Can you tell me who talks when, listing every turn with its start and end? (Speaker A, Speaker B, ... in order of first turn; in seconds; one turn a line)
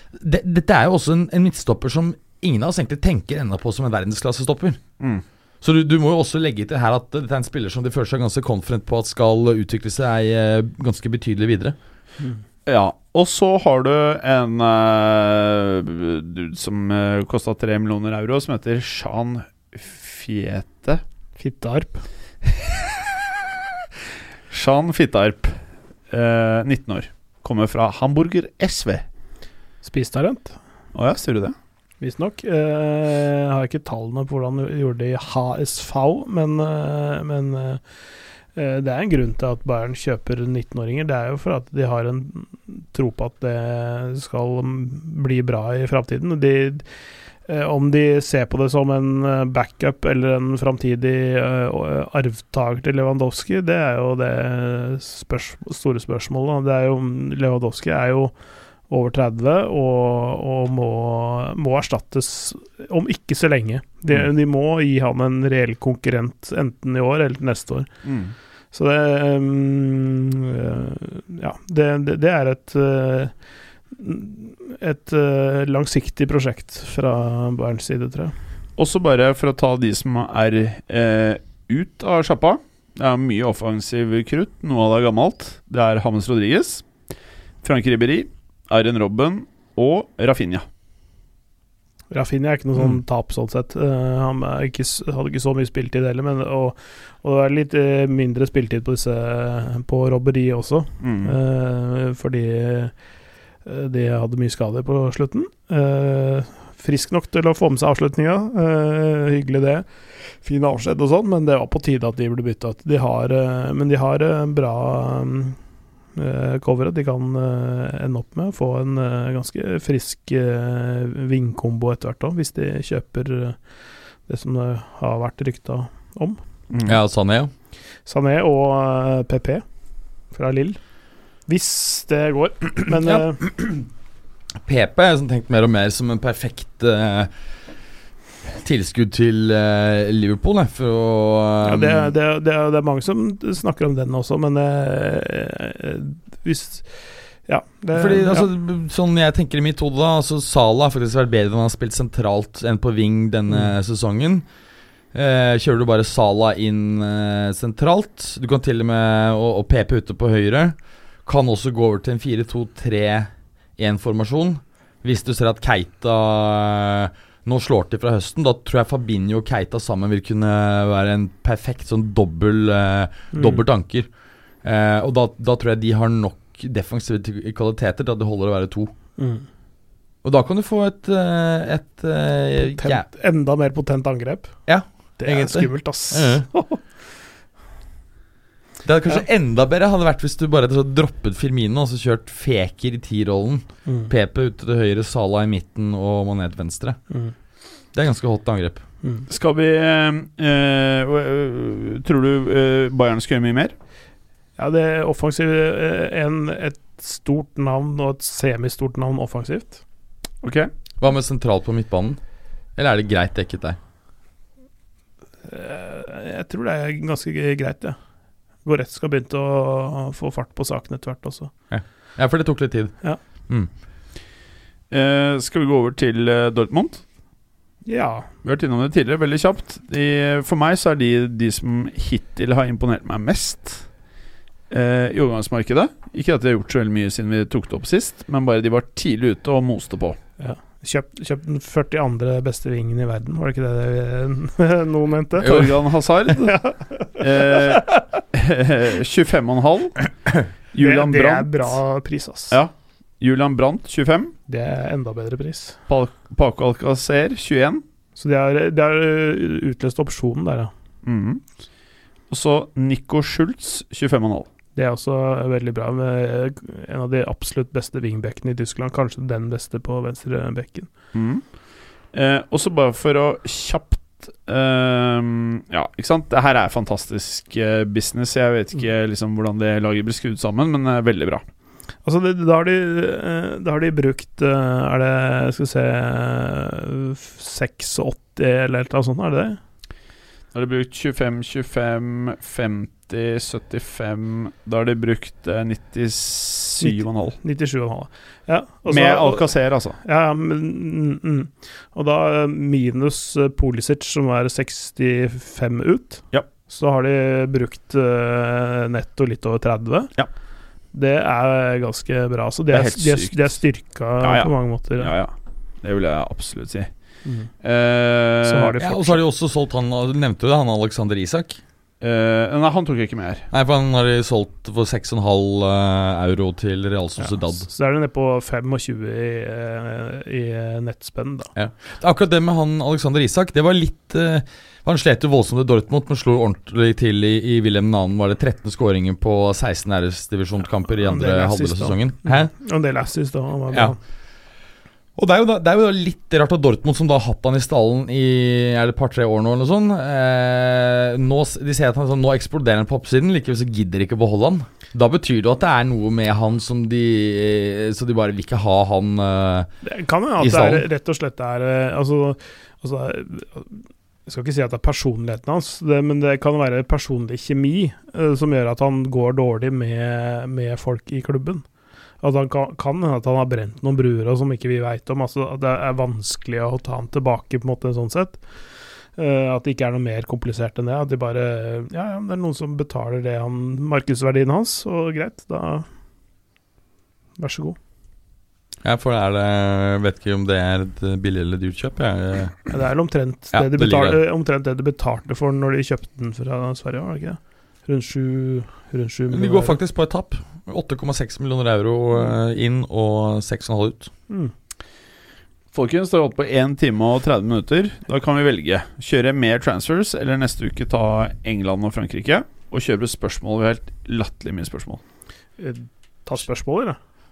Speaker A: 0.1-4.8
Speaker A: 5.6-11.8
Speaker B: 12.7-21.0
Speaker C: 21.4-22.0
Speaker B: 24.5-25.6
Speaker B: 26.1-29.0
Speaker C: 29.8-30.6
Speaker B: 30.9-31.6
Speaker C: 32.0-37.8
Speaker C: 38.5-46.8
Speaker C: 47.5-58.3
Speaker C: 58.9-67.9
Speaker B: 68.0-68.3
Speaker C: 68.7-73.3
Speaker C: 73.9-78.3
Speaker B: 78.8-86.8
Speaker B: 87.6-90.6
Speaker C: 92.1-102.9
Speaker B: 101.0-101.3
Speaker C: 103.6-115.6
Speaker C: 116.1-123.6
Speaker C: 124.3-126.4
Speaker A: 126.8-127.5
Speaker C: 128.1-129.6
Speaker C: 130.3-130.8
Speaker C: 131.5-133.4
Speaker A: 133.0-133.8
Speaker A: 134.6-137.3
Speaker A: 138.6-142.1
Speaker C: 141.6-146.9
Speaker C: 147.4-148.5
Speaker A: 147.9-154.4
Speaker A: 155.1-174.1
Speaker C: 173.3-173.6
Speaker A: 174.6-178.9
Speaker C: 179.2-179.4
Speaker A: 180.2-183.1
Speaker C: 182.6-184.6
Speaker A: 184.7-186.5
Speaker C: 185.2-186.8
Speaker A: 188.8-197.0
Speaker C: 193.8-194.1
Speaker A: 197.9-198.8
Speaker B: 199.3-203.7
Speaker C: 204.6-209.8
Speaker B: 210.4-210.7
Speaker A: 211.0-212.2
Speaker A: 212.8-213.8
Speaker C: 215.4-218.0
Speaker C: 218.6-221.5
Speaker A: 221.7-222.9
Speaker B: 224.9-227.0
Speaker C: 227.8-228.3
Speaker B: 228.4-233.8
Speaker B: 234.7-240.2
Speaker C: 240.4-245.7
Speaker B: 245.4-246.6
Speaker A: 245.4-245.7
Speaker C: 246.4-248.0
Speaker B: 247.2-249.9
Speaker B: 250.7-251.8
Speaker C: 250.8-252.6
Speaker B: 252.5-254.3
Speaker C: 254.5-255.8
Speaker B: 255.9-257.8
Speaker C: 258.1-260.7
Speaker B: 261.0-261.4
Speaker B: 262.3-264.5
Speaker C: 264.7-270.9
Speaker B: 271.1-271.4
Speaker B: 272.1-281.4
Speaker C: 282.1-289.6
Speaker B: 290.5-297.4
Speaker C: 296.8-310.1
Speaker B: 298.9-300.0
Speaker C: 310.9-315.1
Speaker B: 312.7-313.5
Speaker B: 314.2-316.9
Speaker B: 317.6-318.8
Speaker C: 318.4-319.2
Speaker A: 318.8-321.6
Speaker B: 322.0-323.5
Speaker A: 323.5-327.7
Speaker C: 327.2-331.5
Speaker A: 331.6-342.5
Speaker C: 341.0-344.0
Speaker A: 345.2-359.7
Speaker C: 359.8-371.6
Speaker A: 360.4-360.8
Speaker C: 372.2-378.4
Speaker C: 379.2-385.8
Speaker C: 387.4-387.8
Speaker A: 388.8-392.6
Speaker C: 392.7-399.8
Speaker A: 393.5-394.2
Speaker A: 399.3-404.1
Speaker B: 405.7-415.0
Speaker C: 415.6-417.0